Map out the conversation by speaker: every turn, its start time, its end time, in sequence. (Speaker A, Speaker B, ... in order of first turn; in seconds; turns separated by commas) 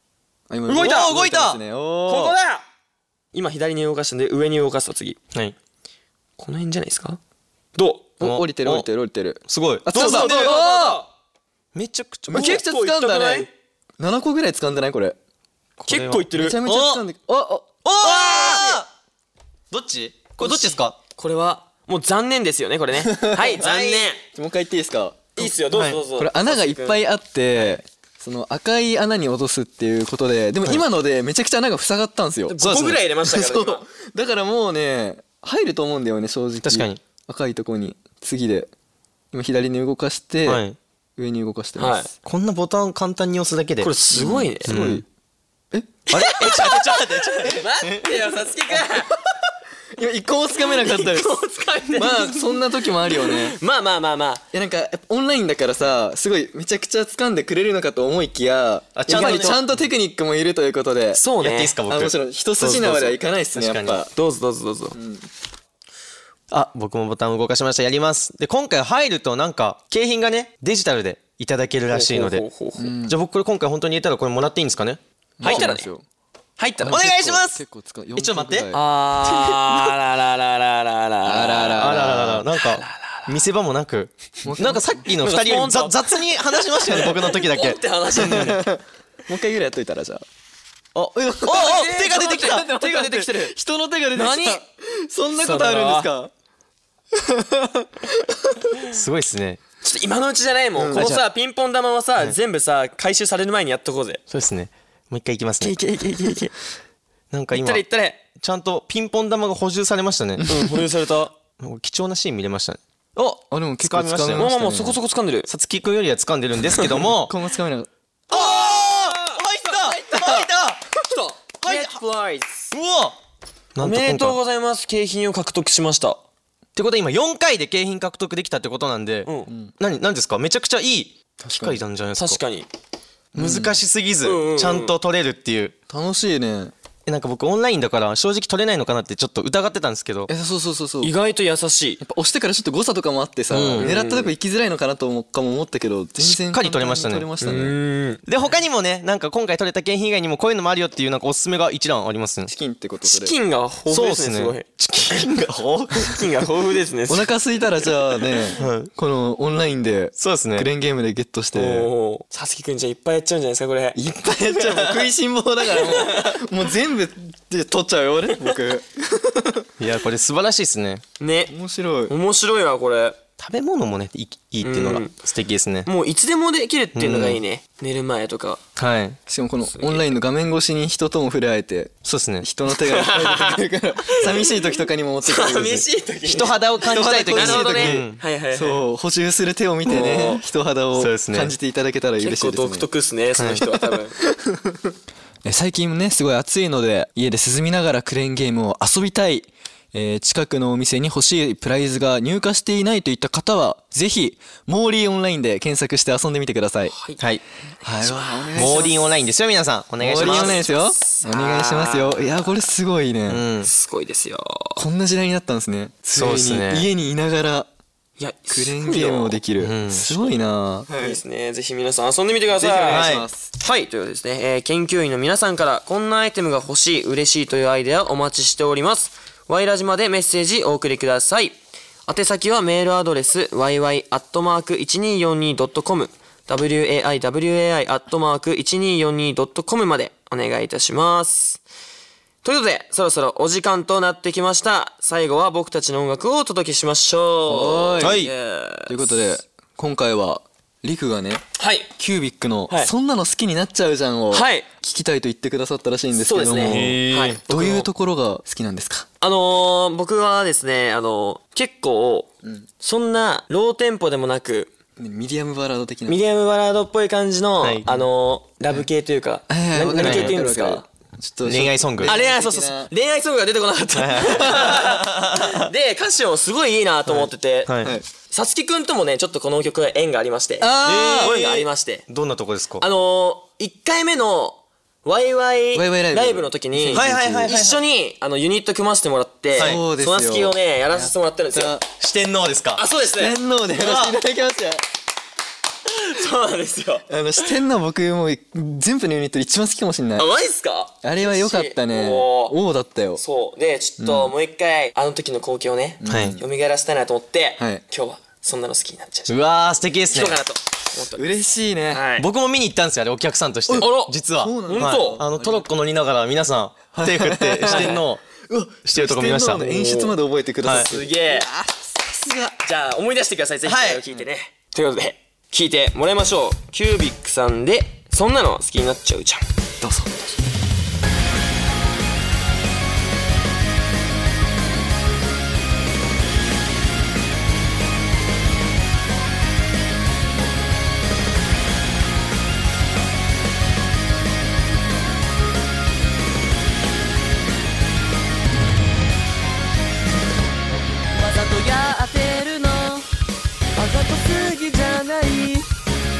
Speaker A: 0.5-2.3, Speaker B: 0.7-1.1, Speaker C: 0.7-1.6, Speaker B: 2.1-2.6, Speaker B: 3.3-5.2, Speaker B: 6.4-7.2, Speaker B: 7.7-8.1, Speaker A: 8.2-11.0, Speaker C: 8.2-8.9, Speaker C: 9.5-10.6, Speaker B: 9.9-11.1, Speaker C: 11.7-12.6, Speaker A: 12.3-15.2, Speaker B: 12.3-13.5, Speaker C: 15.8-17.0, Speaker B: 15.9-16.6, Speaker A: 16.3-18.5, Speaker B: 17.9-18.8, Speaker C: 17.9-18.9, Speaker C: 19.7-20.9, Speaker B: 20.4-24.2, Speaker A: 22.9-23.6, Speaker C: 23.6-24.1, Speaker A: 24.3-25.5, Speaker B: 25.4-27.0, Speaker A: 26.1-32.6, Speaker B: 32.5-33.9, Speaker C: 32.6-33.0, Speaker A: 33.2-38.7, Speaker C: 36.6-37.0, Speaker A: 39.3-40.6, Speaker C: 40.4-40.8, Speaker A: 41.2-42.1, Speaker B: 41.8-42.1, Speaker C: 42.2-43.9, Speaker B: 43.8-44.8, Speaker A: 44.1-45.0, Speaker C: 44.7-45.0, Speaker A: 45.7-46.1, Speaker B: 46.1-49.1, Speaker C: 46.1-48.1, Speaker A: 50.0-51.4, Speaker B: 50.6-52.5, Speaker A: 52.0-53.5, Speaker B: 53.1-54.4, Speaker A: 54.5-61.2, Speaker C: 58.9-59.6, Speaker B: 59.1-59.6, Speaker B: 61.1-61.8, Speaker C: 61.4-64.0, Speaker A: 61.9-64.1, Speaker B: 64.1-65.0, Speaker A: 64.9-65.3, Speaker C: 66.5-72.4, Speaker B: 71.9-72.9, Speaker A: 72.8-73.2, Speaker C: 73.1-75.7, Speaker A: 75.4-76.0, Speaker B: 75.4-75.9, Speaker B: 76.6-77.0, Speaker A: 76.8-78.8, Speaker C: 76.9-77.6, Speaker C: 78.2-78.7, Speaker B: 78.7-81.9, Speaker A: 81.2-82.5, Speaker C: 81.7-87.8, Speaker B: 82.5-83.3, Speaker A: 84.4-85.0, Speaker B: 85.2-88.7, Speaker A: 88.2-90.2, Speaker C: 90.9-93.1, Speaker A: 91.1-96.3, Speaker B: 91.5-93.5, Speaker B: 94.1-94.6, Speaker B: 95.4-96.1, Speaker A: 97.1-98.7, Speaker C: 98.9-99.6, Speaker B: 99.8-104.2, Speaker A: 100.8-101.1, Speaker C: 100.9-101.2, Speaker C: 104.3-105.8, Speaker B: 105.6-106.5, Speaker C: 107.3-110.5, Speaker B: 107.5-108.2, Speaker A: 110.4-110.7, Speaker B: 110.5-111.3, Speaker C: 111.6-114.5, Speaker A: 113.5-115.0, Speaker B: 114.4-115.5, Speaker C: 115.5-117.3, Speaker A: 117.2-117.9, Speaker C: 118.3-120.9, Speaker B: 118.3-120.4, Speaker B: 121.0-122.7, Speaker C: 121.6-122.0, Speaker C: 122.7-123.2, Speaker C: 123.7-124.4, Speaker B: 123.8-126.2, Speaker C: 126.8-132.4, Speaker A: 129.5-129.7, Speaker A: 131.4-131.8, Speaker B: 132.2-132.7, Speaker A: 133.3-133.8, Speaker C: 133.3-135.7, Speaker B: 134.2-134.9, Speaker A: 135.9-136.7, Speaker C: 137.1-140.3, Speaker A: 140.3-141.1, Speaker B: 141.0-142.0, Speaker A: 142.0-147.8, Speaker C: 143.5-143.9, Speaker B: 143.8-144.3, Speaker C: 146.2-147.3, Speaker B: 147.4-148.2, Speaker C: 148.3-152.5, Speaker A: 152.5-153.3, Speaker B: 153.0-155.3, Speaker C: 153.9-156.2, Speaker B: 155.9-157.3, Speaker A: 157.1-161.9, Speaker C: 158.6-158.9, Speaker C: 160.2-160.7, Speaker B: 161.5-164.0, Speaker A: 163.9-169.7, Speaker C: 164.6-165.1, Speaker B: 165.8-166.3, Speaker C: 169.8-171.0, Speaker B: 171.2-171.5, Speaker A: 171.5-172.1, Speaker B: 172.1-173.2, Speaker C: 173.4-175.9, Speaker B: 174.6-175.1, Speaker B: 175.8-178.6, Speaker C: 176.9-177.4, Speaker C: 178.8-179.2, Speaker A: 179.3-185.9, Speaker B: 179.7-180.0, Speaker C: 182.1-182.4, Speaker B: 182.8-183.6, Speaker B: 184.1-184.6, Speaker B: 185.2-186.5, Speaker C: 186.2-188.2, Speaker A: 186.8-192.9, Speaker B: 187.3-188.8, Speaker B: 189.9-190.4, Speaker C: 190.9-191.5, Speaker B: 192.2-194.2, Speaker A: 193.9-194.9, Speaker A: 195.4-206.9, Speaker B: 206.9-207.2, Speaker A: 207.8-208.9, Speaker B: 207.8-208.9, Speaker C: 208.5-210.6, Speaker A: 210.0-213.4, Speaker B: 210.1-212.3, Speaker C: 213.3-213.7, Speaker B: 213.7-214.8, Speaker A: 214.8-217.7, Speaker C: 216.1-216.9, Speaker B: 218.2-219.4, Speaker A: 218.5-221.2, Speaker C: 219.6-220.1, Speaker B: 220.9-241.6, Speaker A: 222.5-223.5, Speaker C: 222.9-223.2, Speaker B: 242.4-249.2, Speaker A: 247.5-248.3, Speaker C: 248.0-248.3, Speaker A: 248.9-251.4, Speaker B: 251.6-251.9, Speaker A: 252.0-259.1, Speaker B: 254.3-254.7, Speaker B: 256.2-257.9, Speaker C: 256.6-257.4, Speaker B: 259.2-264.7, Speaker A: 265.0-266.2, Speaker B: 266.1-270.8, Speaker A: 269.5-272.9, Speaker C: 270.0-270.3, Speaker C: 271.4-272.2, Speaker B: 272.0-277.7, Speaker C: 273.9-275.6, Speaker C: 277.1-277.9, Speaker B: 278.3-282.0, Speaker A: 280.6-281.4, Speaker C: 280.9-282.8, Speaker B: 282.8-291.8, Speaker A: 285.7-287.5, Speaker C: 286.9-287.8, Speaker A: 289.5-291.8, Speaker C: 289.6-289.8, Speaker C: 292.0-292.8, Speaker B: 292.8-293.4, Speaker A: 293.1-294.8, Speaker C: 293.8-294.2, Speaker B: 295.9-297.1, Speaker A: 297.1-300.3, Speaker B: 300.2-302.6, Speaker A: 301.0-303.2, Speaker B: 303.2-309.4, Speaker A: 304.0-304.3, Speaker A: 306.0-306.4, Speaker C: 306.1-306.4, Speaker A: 307.6-307.8, Speaker C: 309.3-310.4, Speaker B: 310.1-311.3, Speaker A: 311.1-312.0, Speaker B: 311.9-312.2, Speaker C: 312.2-319.6, Speaker A: 313.7-315.7, Speaker B: 313.8-315.2, Speaker A: 316.9-322.6, Speaker B: 317.7-318.0, Speaker B: 319.6-320.1, Speaker B: 320.7-321.5, Speaker B: 322.6-329.4, Speaker C: 323.6-324.0, Speaker A: 329.8-330.3, Speaker D: 351.1-353.1, Speaker D: 353.8-355.7